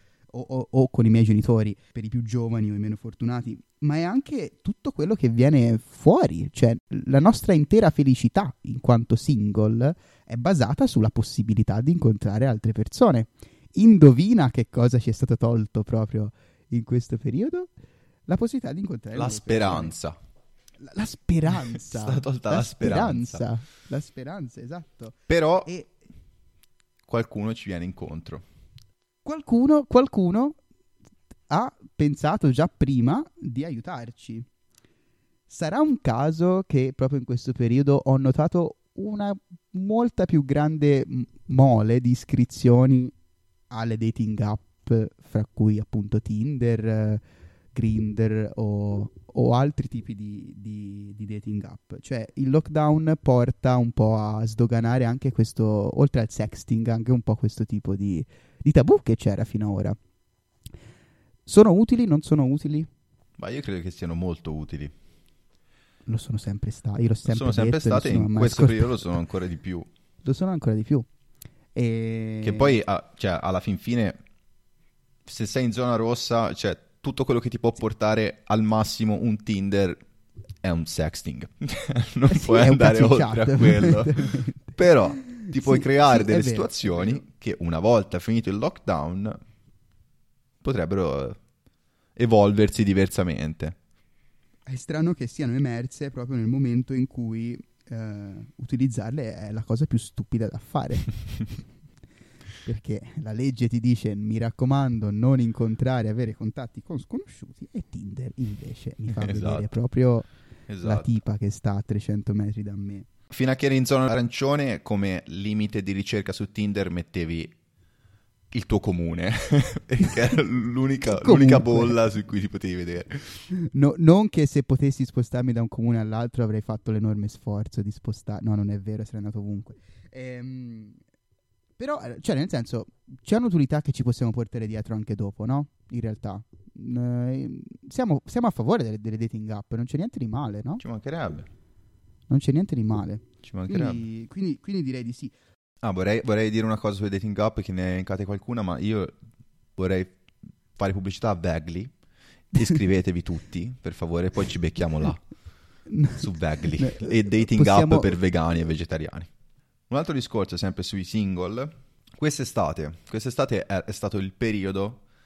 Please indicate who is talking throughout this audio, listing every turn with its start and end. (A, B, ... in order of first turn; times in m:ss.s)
0:00.3-0:17.7 A
0:18.3-0:19.9 A
0:19.1-0:20.2 B
0:20.8-0:25.9 A
0:21.8-0:23.5 B
0:25.3-0:25.7 B
0:27.1-0:28.4 B
0:29.2-0:30.6 A
0:31.5-0:34.5 A
0:35.5-0:43.1 A
0:43.7-0:47.2 A
0:47.8-1:00.0 A
1:01.5-1:02.9 A
1:03.4-1:04.9 B
1:06.1-1:09.2 A
1:07.3-1:09.9 B
1:10.2-1:11.1 A
1:11.8-1:12.8 A
1:12.4-1:14.2 B
1:15.3-1:20.0 B
1:20.6-1:29.4 B
1:22.3-1:27.2 A
1:30.6-1:31.4 B
1:32.2-1:33.8 B
1:34.7-1:41.6 A
1:42.6-1:50.3 A
1:49.1-1:49.8 B
1:50.7-1:51.2 B
1:50.8-1:53.1 A
1:53.3-1:57.5 B
1:58.5-2:03.4 B
2:01.1-2:02.0 A
2:03.5-2:11.0 A
2:11.8-2:20.8 A
2:20.8-2:21.5 B
2:22.3-2:25.3 A
2:23.4-2:24.1 B
2:25.8-2:29.2 B
2:29.8-2:30.2 B
2:30.8-2:31.9 B
2:32.5-2:35.2 B
2:35.9-2:38.1 A
2:36.2-2:39.3 B
2:39.9-2:45.0 B